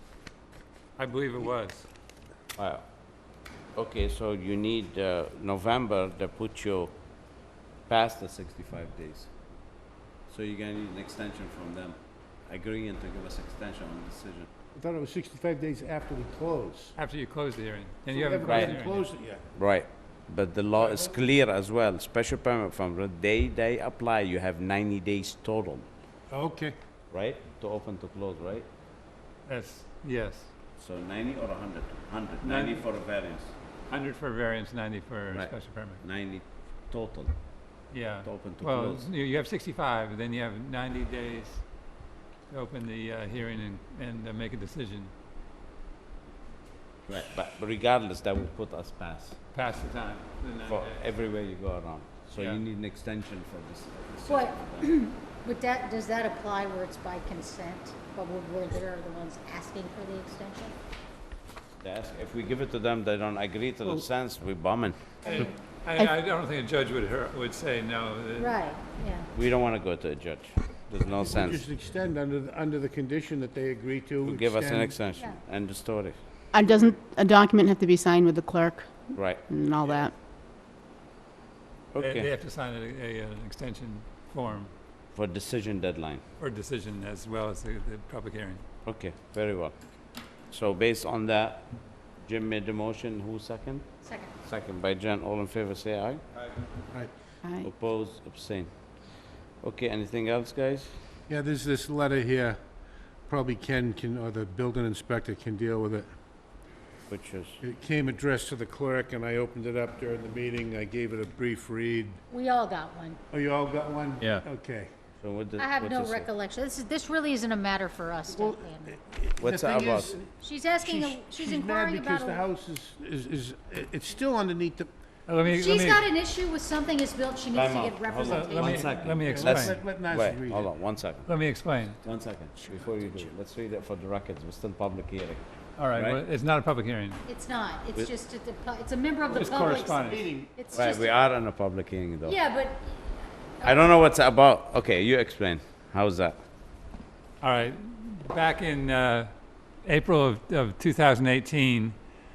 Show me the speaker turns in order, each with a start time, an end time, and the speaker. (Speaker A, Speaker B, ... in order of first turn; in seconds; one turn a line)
Speaker A: 1.0-1.9
Speaker B: 2.6-2.9
Speaker B: 3.8-6.9
Speaker B: 7.9-9.3
Speaker B: 10.3-14.5
Speaker C: 14.7-16.9
Speaker A: 17.0-19.1
Speaker C: 18.1-19.4
Speaker B: 18.5-18.8
Speaker B: 19.6-25.9
Speaker C: 20.8-21.2
Speaker C: 26.3-26.8
Speaker B: 27.1-28.7
Speaker A: 29.5-30.5
Speaker B: 30.8-33.5
Speaker A: 32.4-32.8
Speaker A: 33.9-36.0
Speaker B: 35.3-37.3
Speaker A: 37.9-41.6
Speaker B: 38.2-39.1
Speaker A: 42.5-45.1
Speaker B: 47.1-49.4
Speaker A: 49.5-51.1
Speaker B: 50.7-54.9
Speaker D: 54.3-60.8
Speaker B: 61.8-65.2
Speaker D: 65.2-65.6
Speaker A: 65.2-68.6
Speaker D: 68.4-69.3
Speaker B: 69.3-71.6
Speaker C: 71.2-75.0
Speaker B: 74.2-76.2
Speaker E: 76.5-80.1
Speaker B: 79.2-79.4
Speaker B: 81.9-82.3
Speaker A: 82.0-84.7
Speaker B: 85.1-86.2
Speaker A: 86.4-88.6
Speaker B: 88.8-89.8
Speaker B: 90.5-91.7
Speaker B: 92.2-96.2
Speaker D: 94.0-94.3
Speaker E: 97.4-97.7
Speaker B: 97.6-98.7
Speaker B: 99.6-101.0
Speaker C: 101.3-102.6
Speaker C: 103.3-106.1
Speaker B: 107.1-107.6
Speaker C: 107.6-112.2
Speaker D: 112.3-113.2
Speaker C: 113.3-114.9
Speaker B: 115.2-116.3
Speaker D: 115.6-118.9
Speaker C: 118.3-124.9
Speaker B: 119.4-120.1
Speaker D: 120.4-122.4
Speaker A: 125.3-126.1
Speaker D: 125.5-128.9
Speaker B: 127.5-131.3
Speaker A: 128.2-129.8
Speaker C: 129.2-130.7
Speaker A: 131.3-132.0
Speaker B: 132.0-135.4
Speaker A: 135.8-137.2
Speaker B: 135.9-136.2
Speaker D: 137.3-141.2
Speaker C: 139.3-140.5
Speaker A: 139.3-140.3
Speaker B: 140.7-142.4
Speaker D: 142.2-143.9
Speaker B: 143.6-146.4
Speaker A: 147.4-149.3
Speaker A: 149.8-152.0